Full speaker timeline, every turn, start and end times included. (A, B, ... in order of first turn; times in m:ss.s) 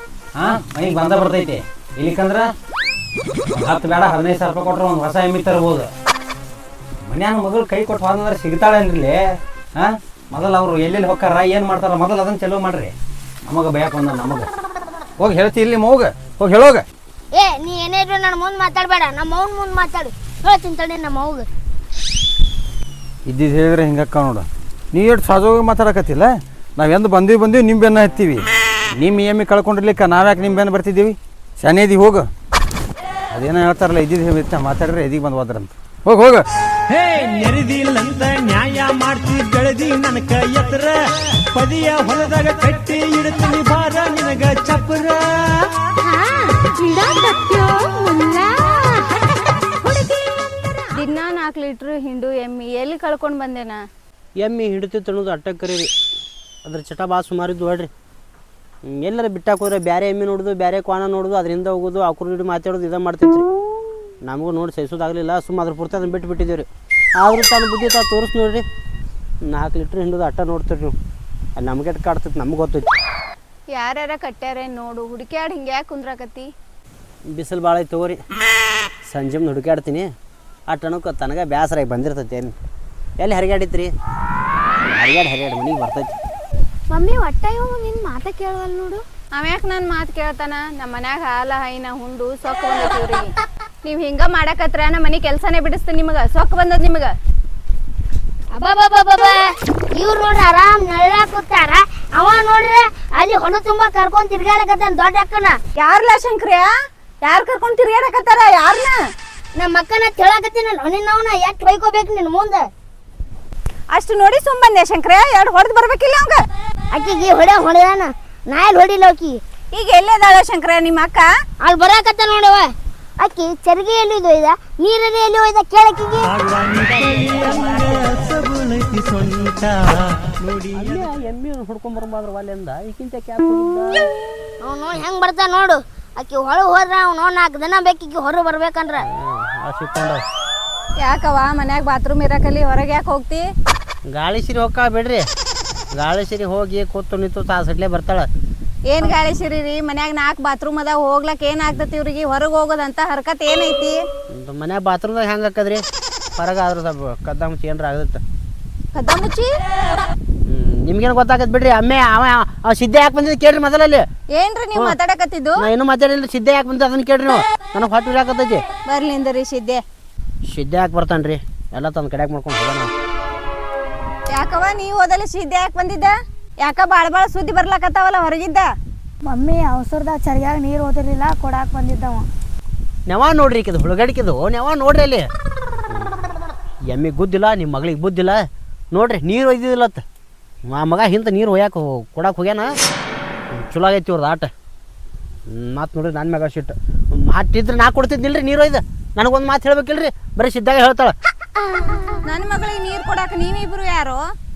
0:00.4-0:02.5 A
0:03.5-0:05.9 A
0:07.1-0:09.2 A
0:09.8-0:12.9 A
0:13.4-0:14.5 A
0:15.2-0:16.8 A
0:17.3-0:21.5 B
0:23.3-0:28.4 A
0:29.0-0:32.3 A
0:33.3-0:36.4 A
0:36.9-0:41.0 C
0:41.5-0:45.7 C
0:46.1-0:48.6 D
0:49.8-0:50.2 E
0:50.9-0:53.8 E
0:54.4-0:55.9 F
0:56.6-0:57.9 F
0:58.9-1:03.4 F
1:04.2-1:06.7 F
1:07.2-1:08.6 F
1:09.5-1:10.9 F
1:11.6-1:12.9 F
1:13.7-1:16.5 E
1:17.3-1:18.2 F
1:19.0-1:20.1 F
1:20.7-1:22.5 F
1:23.2-1:23.9 F
1:24.9-1:26.1 F
1:26.9-1:29.0 D
1:29.4-1:33.3 E
1:33.8-1:37.1 E
1:38.5-1:39.4 B
1:40.0-1:45.5 B
1:45.8-1:46.7 E
1:47.2-1:49.0 E
1:49.6-1:52.6 B
1:53.9-1:56.4 E
1:56.9-1:59.4 B
1:59.7-2:01.2 E
2:01.6-2:02.7 B
2:03.2-2:06.3 B
2:06.3-2:11.0 C
2:10.7-2:14.1 F
2:14.6-2:19.0 B
2:19.1-2:20.2 F
2:21.0-2:23.5 E
2:24.1-2:25.2 F
2:25.9-2:28.3 F
2:28.9-2:34.0 E
2:34.3-2:35.8 F
2:36.4-2:38.2 F
2:38.9-2:39.5 E
2:40.5-2:44.0 F
2:44.4-2:45.7 E
2:45.6-2:48.6 F
2:48.8-2:49.8 E
2:50.5-2:52.9 F
2:54.3-2:58.7 E
2:59.2-3:02.2 G
3:03.1-3:05.3 F
3:06.9-3:10.0 F
3:10.7-3:12.7 F
3:13.5-3:14.5 F
3:15.5-3:21.1 F
3:22.3-3:24.2 E